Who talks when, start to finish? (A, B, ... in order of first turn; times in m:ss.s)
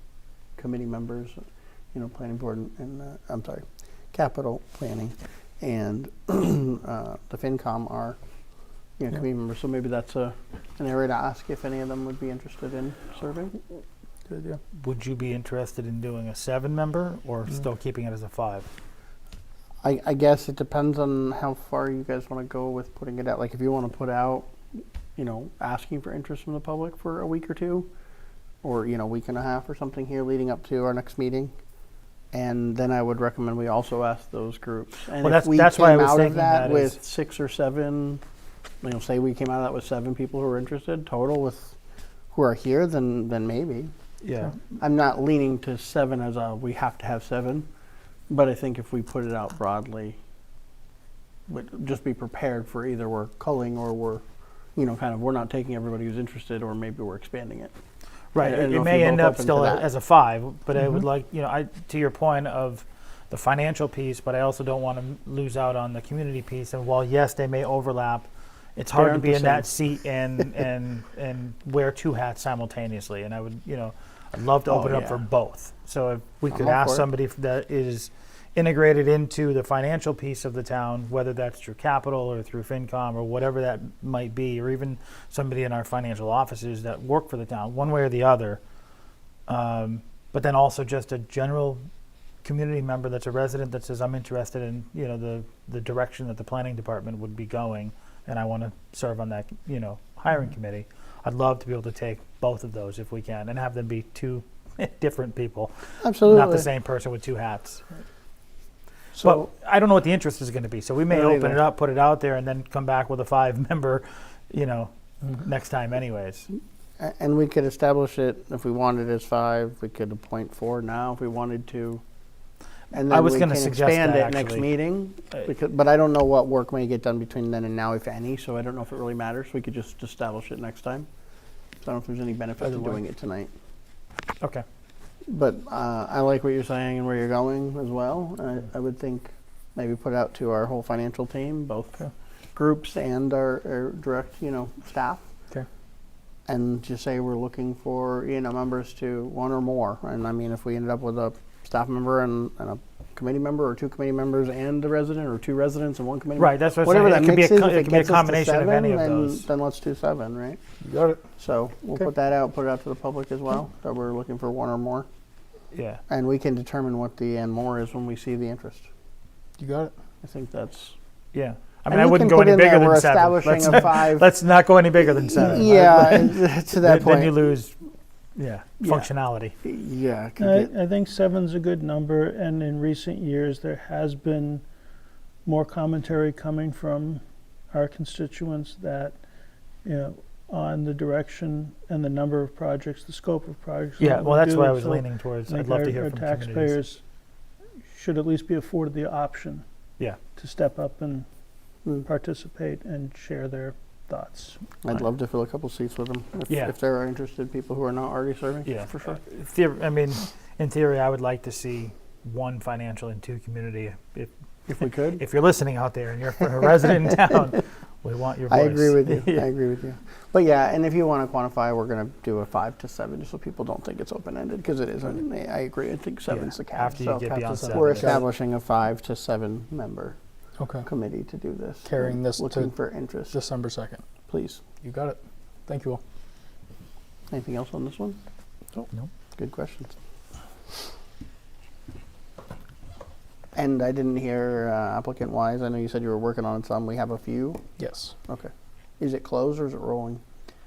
0:00.6-0:01.4 A
0:01.9-0:08.2 A
0:09.0-0:13.6 A
0:14.3-0:14.6 B
0:14.8-0:18.7 C
0:19.8-0:27.9 A
0:28.6-0:31.5 A
0:32.3-0:38.2 A
0:35.2-0:37.0 C
0:38.8-0:41.8 A
0:42.3-0:43.9 A
0:44.2-0:44.6 C
0:44.8-0:47.7 A
0:48.3-0:50.2 A
0:51.5-0:54.2 A
0:54.8-0:57.7 A
0:58.3-1:28.6 C
0:58.4-0:59.9 A
1:08.9-1:09.7 A
1:14.6-1:15.2 A
1:16.5-1:17.1 A
1:29.5-1:31.8 C
1:32.4-1:47.8 C
1:46.0-1:46.7 A
1:49.2-1:49.4 A
1:49.2-1:56.5 C
1:51.1-1:51.6 A
1:57.0-2:02.0 A
2:02.9-2:11.1 A
2:03.1-2:04.6 C
2:11.8-2:13.5 A
2:12.6-2:13.0 B
2:15.3-2:22.0 A
2:22.5-2:25.2 A
2:26.5-2:40.6 A
2:36.4-2:39.5 C
2:40.8-2:41.2 B
2:41.4-2:45.1 A
2:45.7-2:46.0 C
2:46.1-2:48.9 A
2:49.6-2:49.9 B
2:50.2-2:51.0 A
2:51.3-2:57.7 C
2:51.9-2:54.3 A
2:55.0-2:57.3 A
2:58.4-2:59.5 C
2:58.8-2:59.1 A
2:59.6-3:00.7 A
3:00.4-3:04.6 D
3:05.4-3:07.2 D
3:07.7-3:09.2 D
3:09.8-3:17.0 D
3:14.0-3:16.8 C
3:17.9-3:19.6 D
3:20.4-3:21.2 D
3:21.9-3:24.6 D
3:24.8-3:29.2 A
3:28.6-3:34.3 C
3:34.7-3:35.2 A
3:35.2-3:39.4 C
3:38.5-3:50.2 A
3:46.3-3:48.2 C
3:47.4-3:48.2 B
3:50.6-3:50.9 B
3:50.8-3:53.4 A
3:51.8-3:52.8 B
3:53.3-3:54.0 B
3:54.3-3:54.6 A
3:54.8-3:56.0 B
3:57.3-3:58.2 A
3:59.4-3:59.9 A
4:03.5-4:07.6 A
4:07.8-4:08.1 B
4:08.2-4:10.2 A